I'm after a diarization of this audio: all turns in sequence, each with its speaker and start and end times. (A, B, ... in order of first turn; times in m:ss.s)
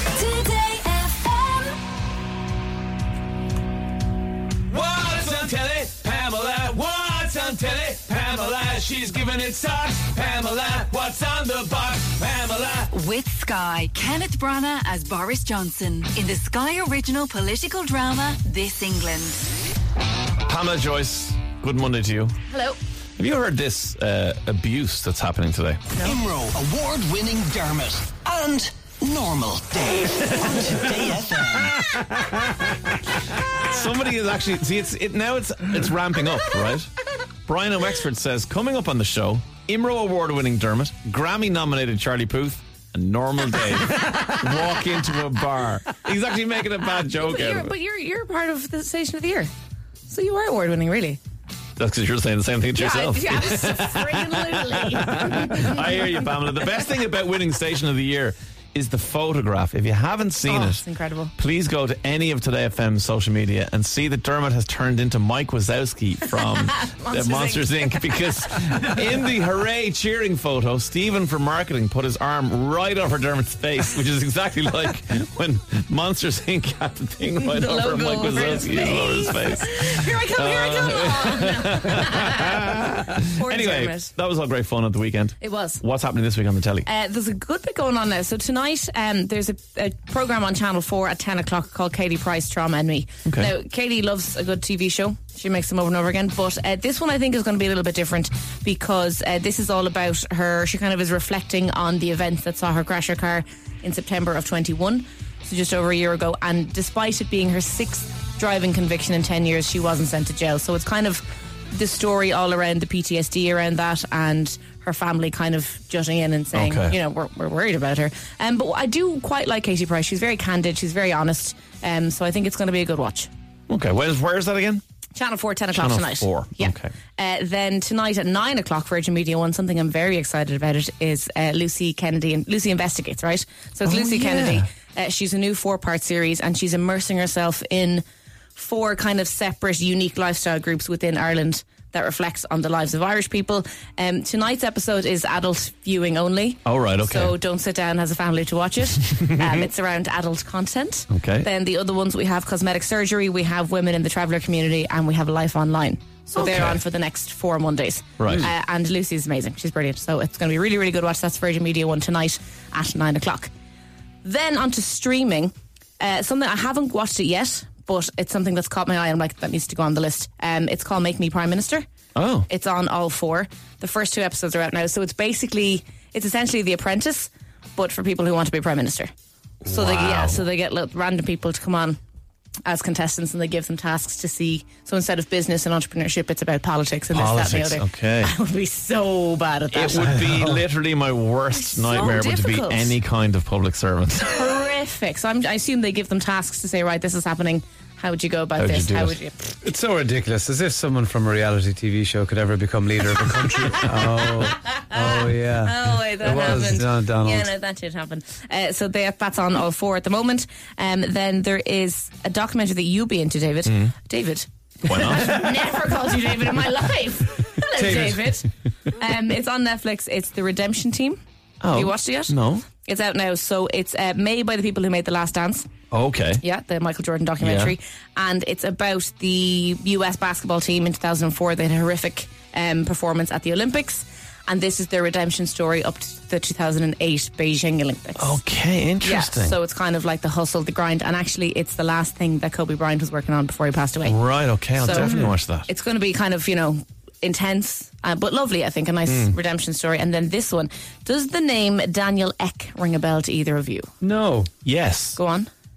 0:00.2-0:01.8 A
0:04.7-0:12.9 B
0:12.9-0:19.4 A
0:20.5-0:22.4 B
0:22.5-0:22.8 C
0:23.2-0:26.0 B
0:26.0-0:31.8 D
0:33.5-0:36.9 B
0:37.5-0:47.8 B
0:47.1-0:49.5 C
0:50.1-0:51.2 C
0:51.8-1:00.9 B
0:52.8-0:55.9 C
1:00.4-1:01.3 C
1:01.4-1:26.9 B
1:06.4-1:08.5 C
1:17.4-1:24.1 C
1:25.4-1:25.8 C
1:26.8-2:03.3 C
1:33.2-1:33.5 B
1:56.5-1:57.0 B
2:03.7-2:04.8 B
2:05.2-2:18.0 C
2:05.7-2:06.9 B
2:13.8-2:14.7 B
2:18.6-2:43.5 C
2:26.6-2:27.4 B
2:31.1-2:31.5 B
2:36.4-2:36.8 B
2:38.2-2:38.5 B
2:44.2-2:51.8 C
2:52.2-2:52.5 B
2:52.5-2:59.1 C
2:59.6-3:00.4 B
2:59.7-3:02.0 C
3:02.7-3:10.3 C
3:07.1-3:08.3 B
3:09.7-3:14.3 B
3:11.5-3:13.0 C
3:14.2-3:19.6 C
3:18.6-3:19.2 B
3:19.6-3:27.5 E
3:23.6-3:41.2 C
3:33.7-3:33.9 B
3:34.8-3:35.4 B
3:37.8-3:38.3 E
3:41.6-3:42.7 B
3:41.7-3:45.7 C
3:45.9-3:46.4 B
3:46.4-3:58.4 C
3:47.4-3:47.8 B
3:58.2-3:59.6 B
3:59.0-4:04.2 C
4:04.0-4:05.7 B
4:04.7-4:13.9 C
4:05.0-4:05.3 E
4:09.1-4:09.4 B
4:14.0-4:14.5 E
4:14.6-4:15.2 B
4:15.2-4:15.5 C